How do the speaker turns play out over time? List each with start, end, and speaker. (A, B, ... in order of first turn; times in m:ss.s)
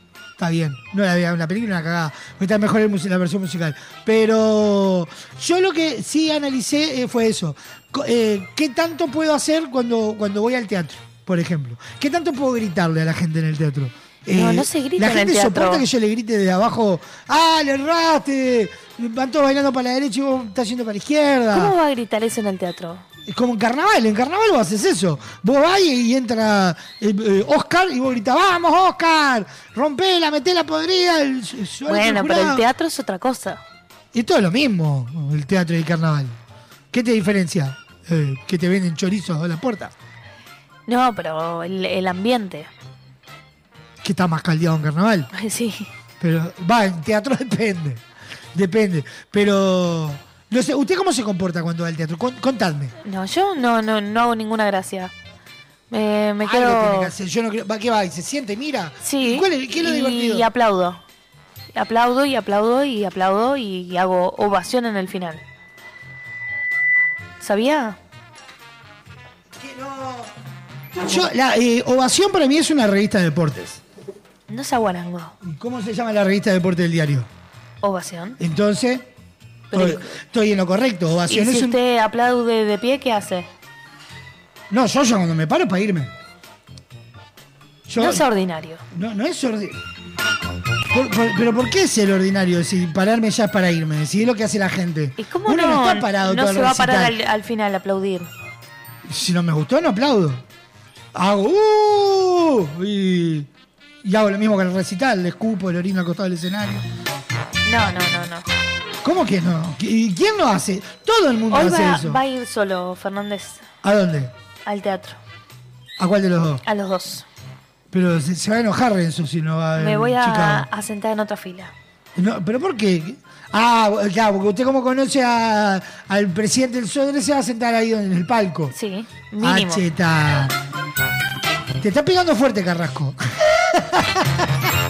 0:00.4-0:21.8 A
0:14.3-0:15.9 B
0:21.5-0:23.1 B
0:23.3-0:32.7 A
0:31.8-0:33.6 B
0:34.1-0:36.4 A
0:36.9-0:39.9 A
0:40.9-0:42.7 B
0:44.0-0:45.3 A
0:45.3-0:45.9 B
0:46.2-0:48.0 A
0:48.5-0:53.0 A
0:53.0-0:55.1 B
0:55.9-0:57.2 B
0:56.4-1:00.5 A
0:59.0-1:01.0 B
1:01.7-1:05.4 B
1:07.4-1:08.0 B
1:09.6-1:10.3 A
1:11.0-1:13.8 A
1:14.5-1:15.4 B
1:15.4-1:17.3 A
1:17.8-1:18.4 B
1:18.4-1:19.1 A
1:19.7-1:20.1 B
1:19.7-1:21.8 A
1:21.3-1:23.5 B
1:24.7-1:26.1 A
1:27.9-1:28.3 A
1:28.0-1:28.8 B
1:28.9-1:29.8 A
1:30.9-1:37.2 A
1:35.2-1:38.3 B
1:39.1-1:40.4 A
1:41.2-1:43.5 A
1:44.0-1:46.8 A
1:47.6-1:48.5 B
1:49.0-1:52.2 A
1:51.5-1:53.6 B
1:53.8-1:54.3 A
1:54.6-1:55.2 B
1:56.0-1:56.6 A
1:56.6-1:57.3 B
1:57.9-2:00.7 A
1:59.8-2:01.7 B
2:02.2-2:08.7 A
2:08.7-2:09.8 B
2:09.4-2:10.6 A
2:11.8-2:14.5 A